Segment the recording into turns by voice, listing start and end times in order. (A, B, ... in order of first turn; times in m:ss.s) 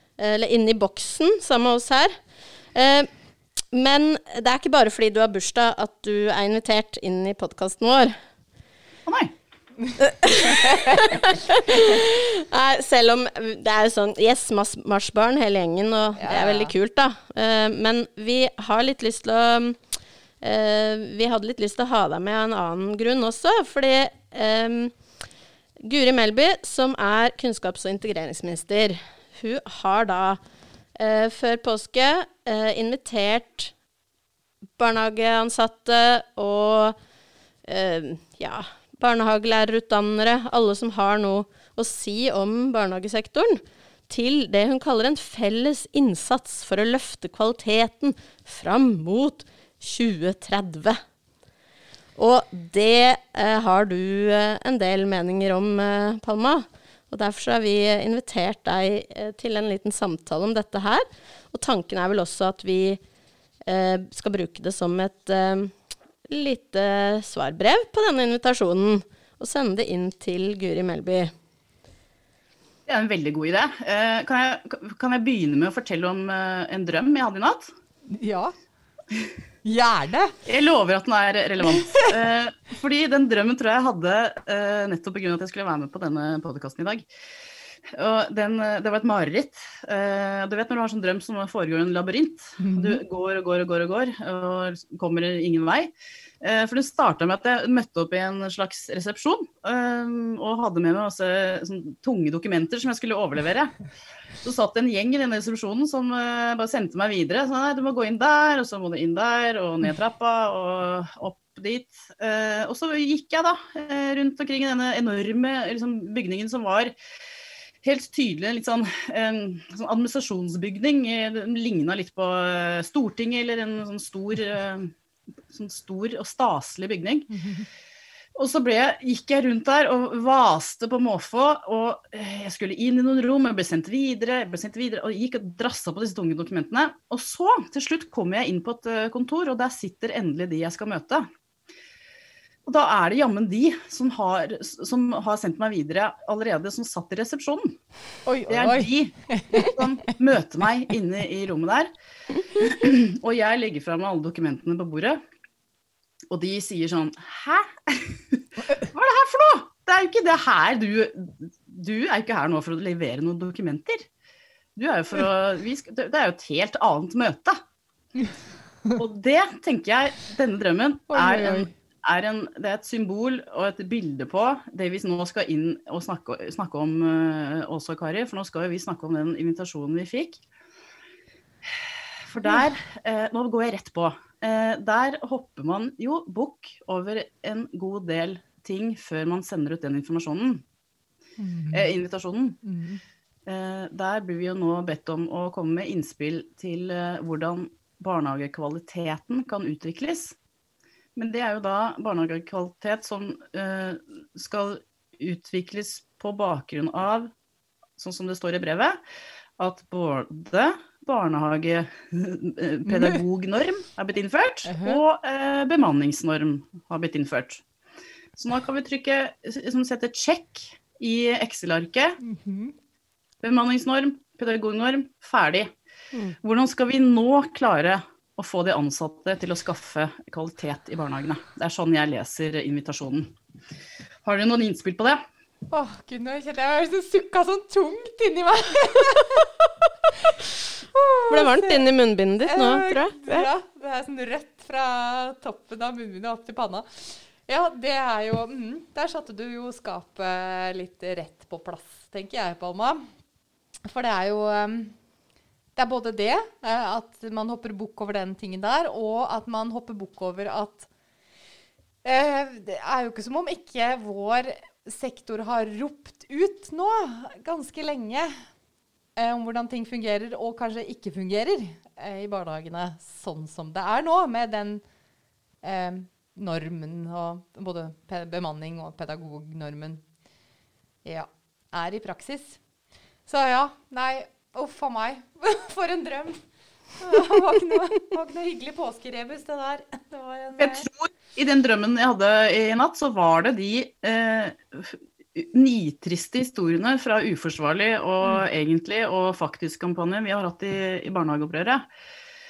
0:00.2-0:02.2 A
0:02.7-0:03.1 A
0:03.7-0:08.2 A
0:09.1-0:09.3 B
0:09.9-0:11.9 C
0:10.0-0:19.8 A
0:16.2-0:16.7 C
0:20.4-0:25.0 A
0:25.8-0:30.4 A
0:31.0-0:33.7 A
0:34.8-0:37.0 A
0:37.6-0:51.0 A
0:52.2-1:03.0 A
1:03.7-1:05.8 A
1:06.3-1:11.3 A
1:12.9-1:17.7 B
1:18.1-1:18.6 C
1:19.6-1:20.3 C
1:20.5-1:27.1 B
1:27.9-1:43.7 B
1:32.6-1:33.0 C
1:44.4-1:56.9 B
1:57.8-2:04.9 B
2:05.5-2:07.3 B
2:07.3-2:07.7 C
2:08.4-2:21.3 B
2:22.7-2:27.8 B
2:28.3-2:29.8 C
2:28.5-2:31.9 B
2:32.5-2:35.2 B
2:36.3-2:44.1 B
2:44.8-2:47.6 B
2:49.0-3:00.4 B
2:51.1-2:51.7 C
3:01.8-3:10.6 B
3:11.4-3:11.9 C
3:11.7-3:12.6 B
3:12.6-3:13.0 C
3:13.5-3:20.4 B
3:21.2-3:27.3 B
3:28.0-3:29.0 B
3:29.6-3:37.6 B
3:32.9-3:33.2 C
3:34.6-3:35.0 C
3:38.4-3:42.2 B
3:42.2-3:42.8 C
3:43.4-3:45.7 B
3:46.4-3:53.3 B
3:54.2-3:55.2 B
3:55.7-3:59.5 C
4:00.9-4:01.8 C
4:01.3-4:03.5 A
4:02.5-4:13.1 C
4:13.9-4:15.0 C
4:15.8-4:20.9 C
4:22.0-4:28.5 C
4:29.2-4:34.8 C
4:35.6-4:40.0 C
4:41.0-4:42.6 C
4:43.3-4:46.4 C
4:47.0-4:50.9 C
4:50.6-5:01.9 B